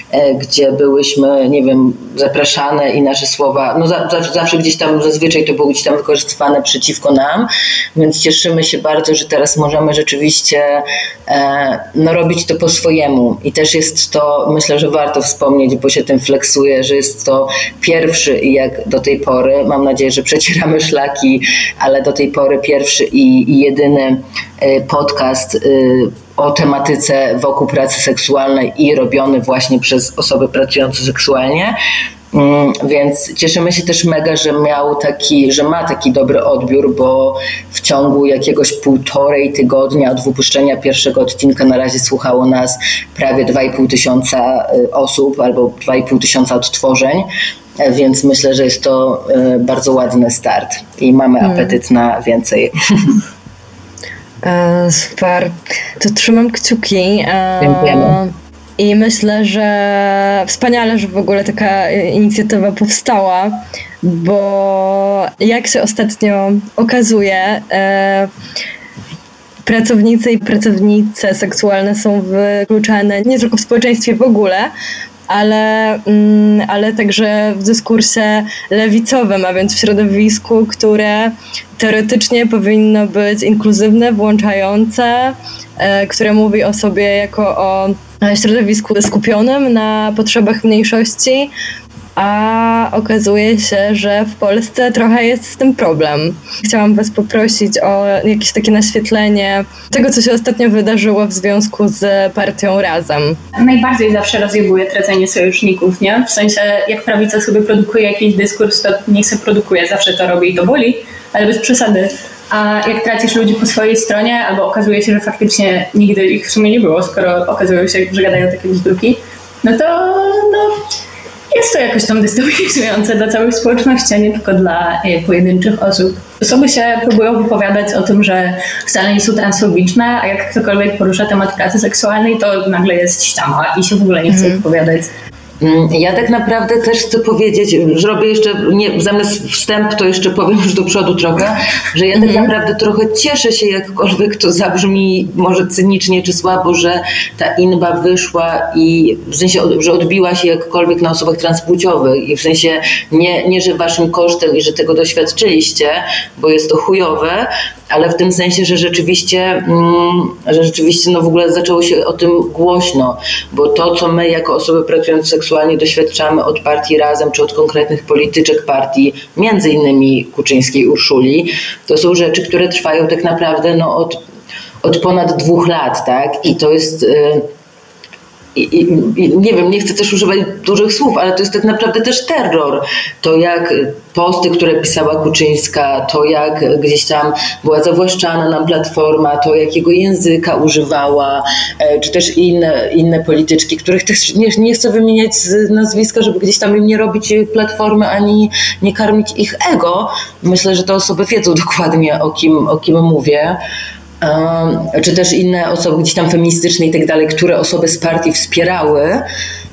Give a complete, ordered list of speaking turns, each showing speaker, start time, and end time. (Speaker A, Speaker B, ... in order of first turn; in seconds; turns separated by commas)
Speaker A: 0.1-31.8, Speaker A: 32.3-47.3, Speaker A: 47.8-53.2, Speaker B: 51.4-51.7, Speaker B: 54.4-68.3, Speaker A: 57.6-58.2, Speaker B: 69.6-74.7, Speaker B: 75.3-91.5, Speaker B: 92.2-103.4, Speaker C: 103.5-120.8, Speaker C: 121.5-135.1, Speaker B: 134.3-134.6, Speaker A: 135.6-174.2, Speaker B: 142.1-142.5, Speaker A: 174.8-177.5, Speaker A: 178.5-203.6, Speaker A: 204.2-209.2